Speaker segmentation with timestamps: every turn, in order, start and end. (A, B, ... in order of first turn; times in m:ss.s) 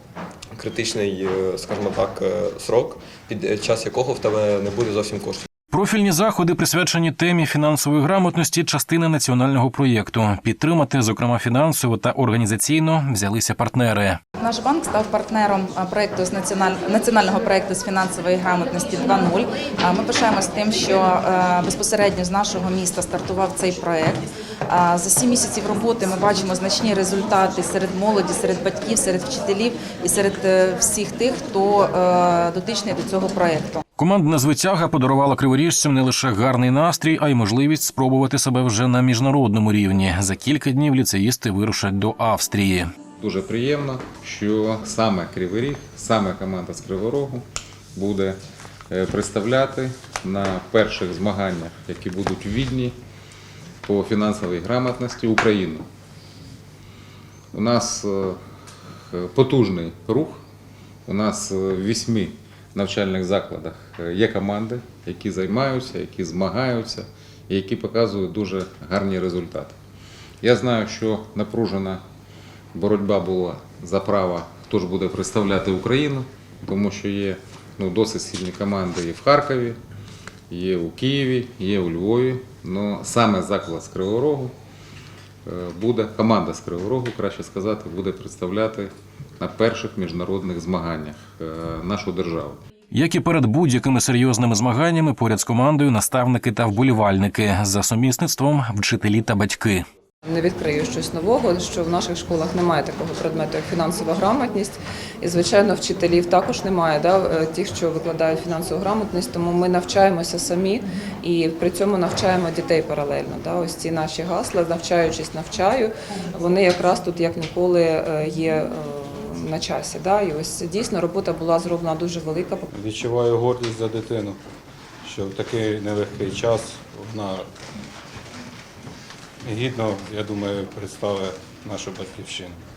0:00.5-0:05.4 A
0:05.7-0:14.2 B
0:14.4-0:33.8 C
0:34.0-0:42.9 B
0:43.2-0:47.4 D
0:48.0-0:48.4 D
0:48.9-0:52.9 D
0:53.8-0:55.8 D
0:57.5-0:58.4 D
0:59.1-1:00.4 D
1:01.1-1:09.7 D
1:10.4-1:12.0 D
1:12.7-1:19.8 D
1:20.5-1:24.5 D
1:25.4-1:32.6 D
1:32.9-1:39.8 B
1:40.2-2:02.7 E
2:02.7-2:04.4 F
2:05.0-2:07.5 F
2:09.4-2:12.6 F